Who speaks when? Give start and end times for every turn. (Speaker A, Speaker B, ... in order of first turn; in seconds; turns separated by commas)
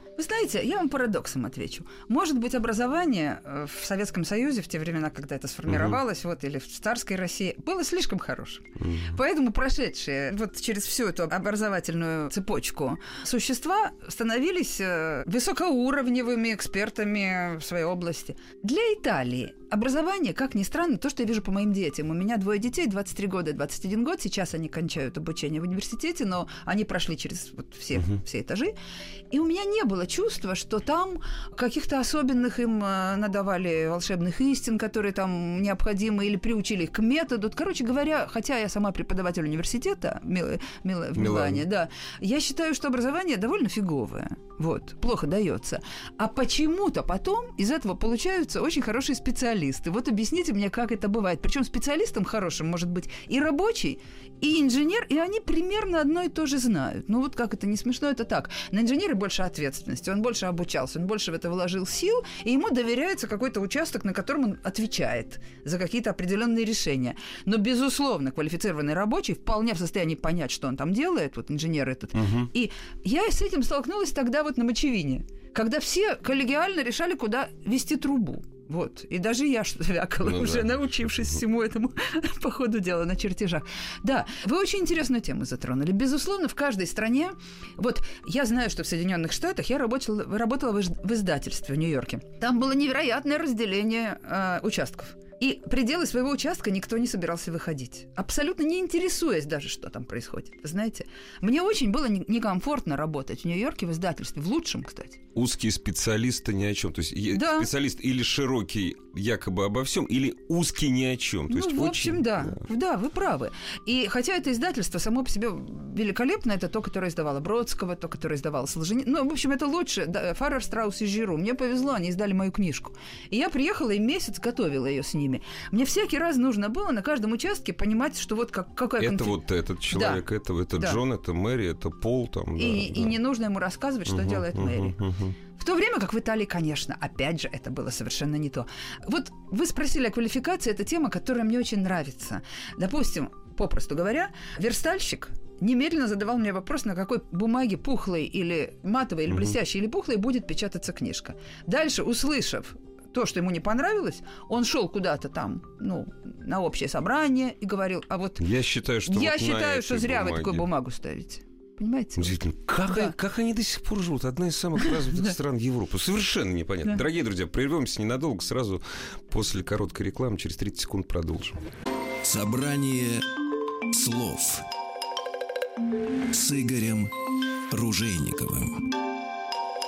Speaker A: 0.2-28.8, Speaker B: 5.7-6.0, Speaker B: 8.8-9.2, Speaker A: 29.3-105.2, Speaker B: 41.1-41.7, Speaker B: 72.1-72.5, Speaker B: 80.2-80.7, Speaker B: 105.3-112.6, Speaker A: 107.3-107.7, Speaker A: 111.5-129.4, Speaker B: 129.0-133.2, Speaker A: 129.9-130.2, Speaker A: 130.8-131.0, Speaker A: 132.6-135.0, Speaker B: 134.1-135.4, Speaker A: 135.6-158.4, Speaker B: 149.3-149.6, Speaker B: 158.4-160.7, Speaker A: 159.1-163.2, Speaker B: 162.2-171.6, Speaker C: 172.2-173.3, Speaker C: 173.9-174.7, Speaker C: 176.3-177.1, Speaker C: 177.7-178.9